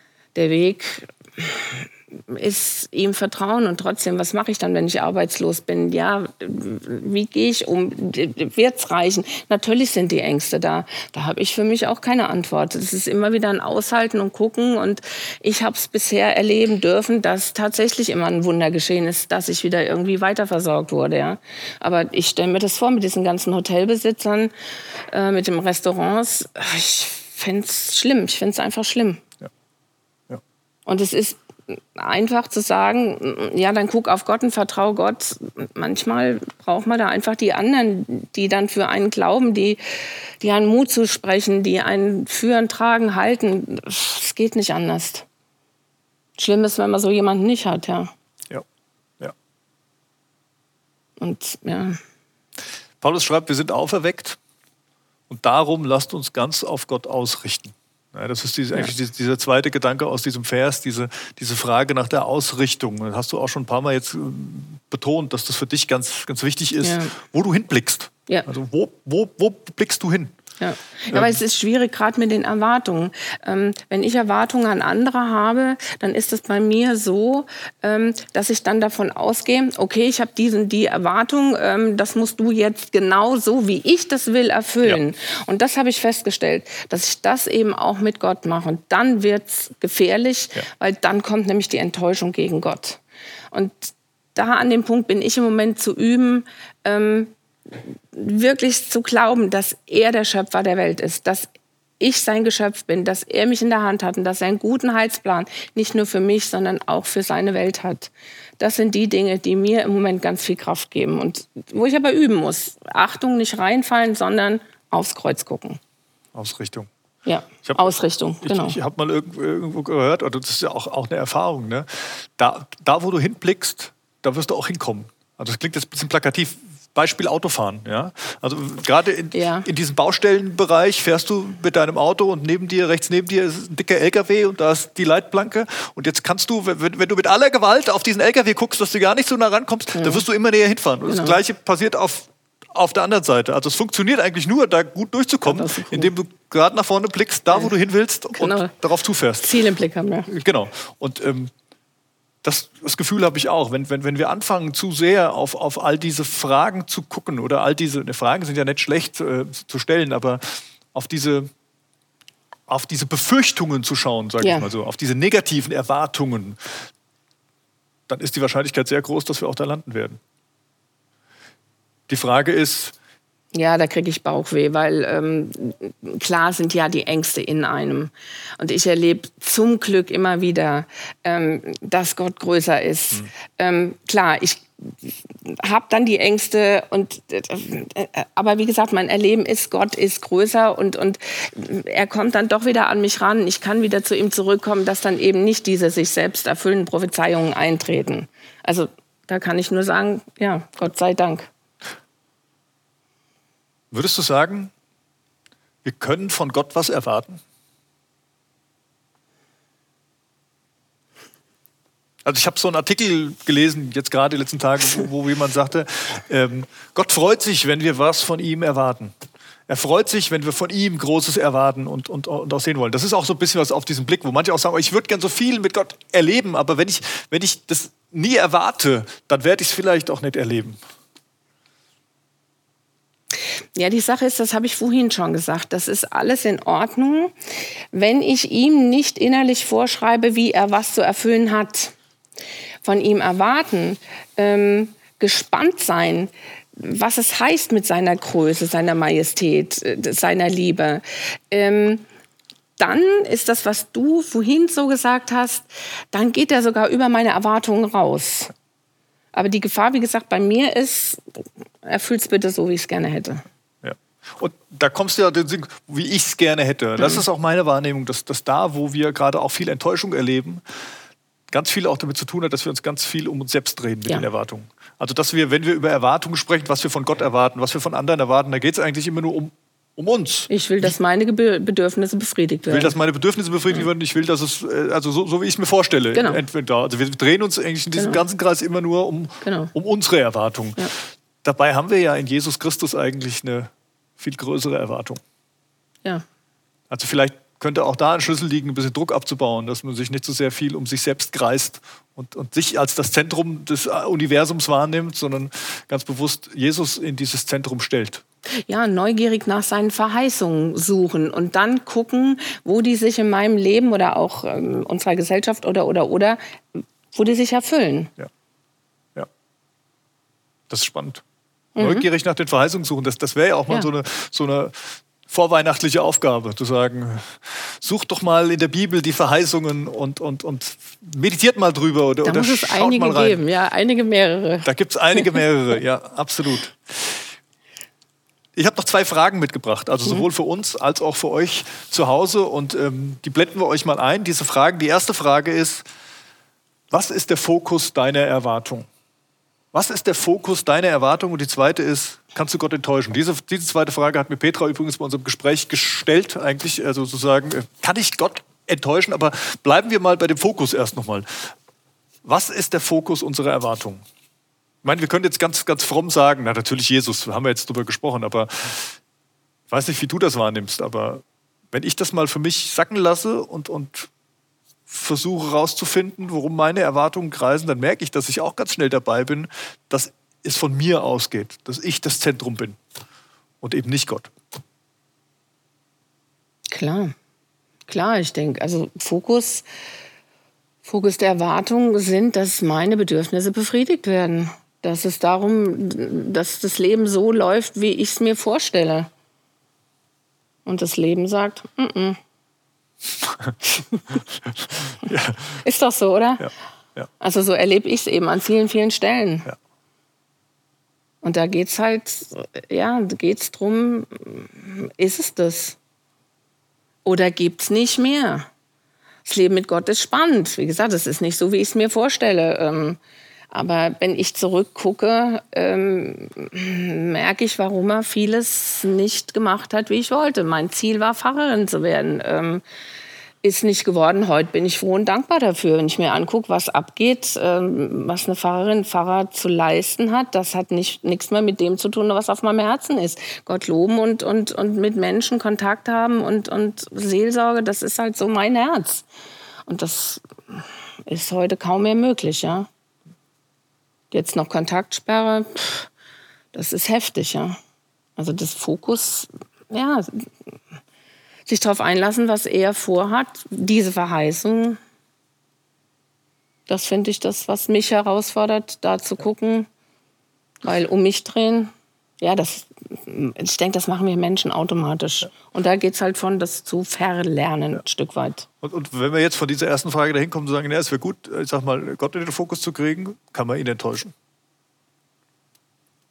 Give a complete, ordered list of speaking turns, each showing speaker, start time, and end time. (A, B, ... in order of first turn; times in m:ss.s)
0:00.4-0:24.5 A
0:25.1-0:29.2 A
0:30.9-0:39.8 A
0:40.4-0:45.3 A
0:46.4-0:48.1 A
0:51.2-0:52.0 A
0:53.0-0:54.4 B
0:55.3-1:10.4 B
1:06.8-1:07.1 A
1:10.6-1:41.5 A
1:11.1-1:11.4 B
1:42.0-1:55.8 A
1:56.4-1:56.9 B
1:57.2-1:58.8 A
1:57.6-1:57.9 B
1:58.4-2:29.5 B
2:09.3-2:09.7 A
2:19.9-2:20.2 A
2:21.0-2:21.4 A
2:25.5-2:26.1 A
2:28.4-2:28.7 A
2:29.4-2:30.3 A
2:30.3-2:31.5 B
2:32.4-2:41.5 B
2:42.7-2:46.7 B
2:44.4-2:44.7 A
2:48.1-2:50.2 B
2:52.1-2:52.9 B
2:53.5-3:21.5 A
3:23.9-3:24.7 B
3:25.8-3:27.4 B
3:32.2-3:39.1 B
3:39.7-3:50.8 B
3:53.8-3:57.4 A
3:57.9-4:02.0 A
4:02.8-4:12.0 A
4:12.8-4:18.5 A
4:19.3-4:23.4 A
4:23.8-4:30.6 B
4:27.0-4:27.2 A
4:31.5-4:41.0 B
4:40.5-4:43.0 A
4:42.7-4:50.9 B
4:46.2-4:46.4 A
4:48.0-4:48.2 A
4:49.4-4:49.7 A
4:51.4-4:55.2 B
4:56.9-5:08.2 B
5:08.7-5:18.1 A
5:20.7-5:21.2 B
5:21.8-5:22.1 A
5:21.8-5:33.4 B
5:32.2-5:34.7 A
5:34.6-5:37.3 B
5:38.6-5:45.8 B
5:46.9-5:48.9 B
5:49.7-6:01.5 B
6:02.2-6:04.0 B
6:04.8-6:09.0 B
6:09.7-6:14.1 B
6:14.9-6:22.8 B
6:23.6-6:24.3 B
6:26.7-6:27.2 A
6:27.9-6:29.7 A
6:30.8-6:39.1 A
6:40.7-6:42.2 A
6:44.1-6:45.6 B
6:45.6-6:46.5 A
6:46.4-6:47.1 B
6:47.2-6:49.5 A
6:51.2-6:55.8 A
6:57.0-6:58.5 A
6:59.2-7:03.0 A
7:03.5-7:12.6 A
7:13.4-7:29.1 A
7:29.7-7:32.7 A
7:34.1-7:35.9 A
7:36.5-7:37.6 A
7:38.2-7:40.3 A
7:41.5-7:44.8 A
7:46.7-7:49.7 A
7:50.6-7:58.5 A
7:58.6-8:04.1 B